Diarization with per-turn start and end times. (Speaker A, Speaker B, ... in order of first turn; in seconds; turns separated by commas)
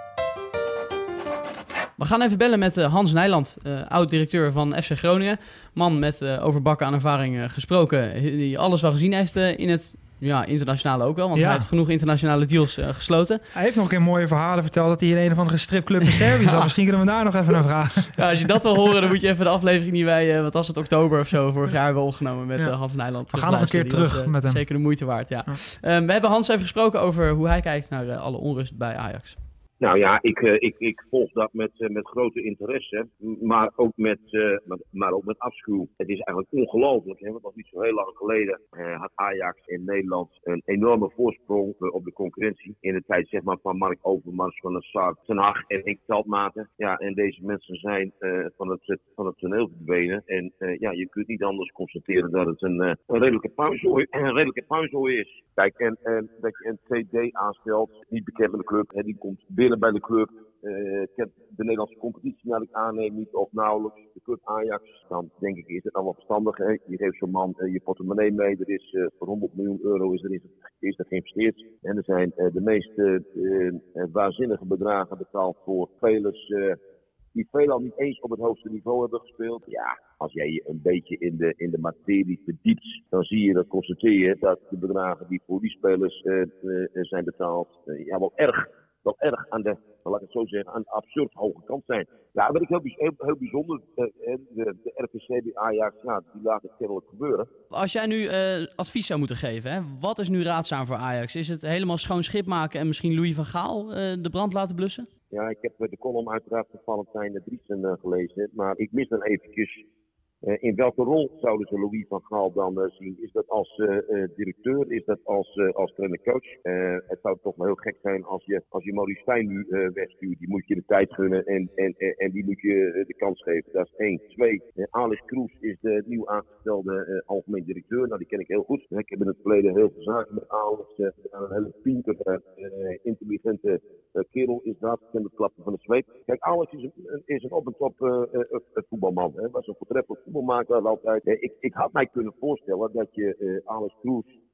Speaker A: 2.0-13.5, Speaker B: 11.3-11.7, Speaker B: 13.5-18.5, Speaker A: 18.2-29.4, Speaker B: 22.6-24.7, Speaker C: 29.8-76.8, Speaker C: 77.3-97.5, Speaker A: 97.7-105.1, Speaker C: 105.3-109.8, Speaker C: 110.5-144.3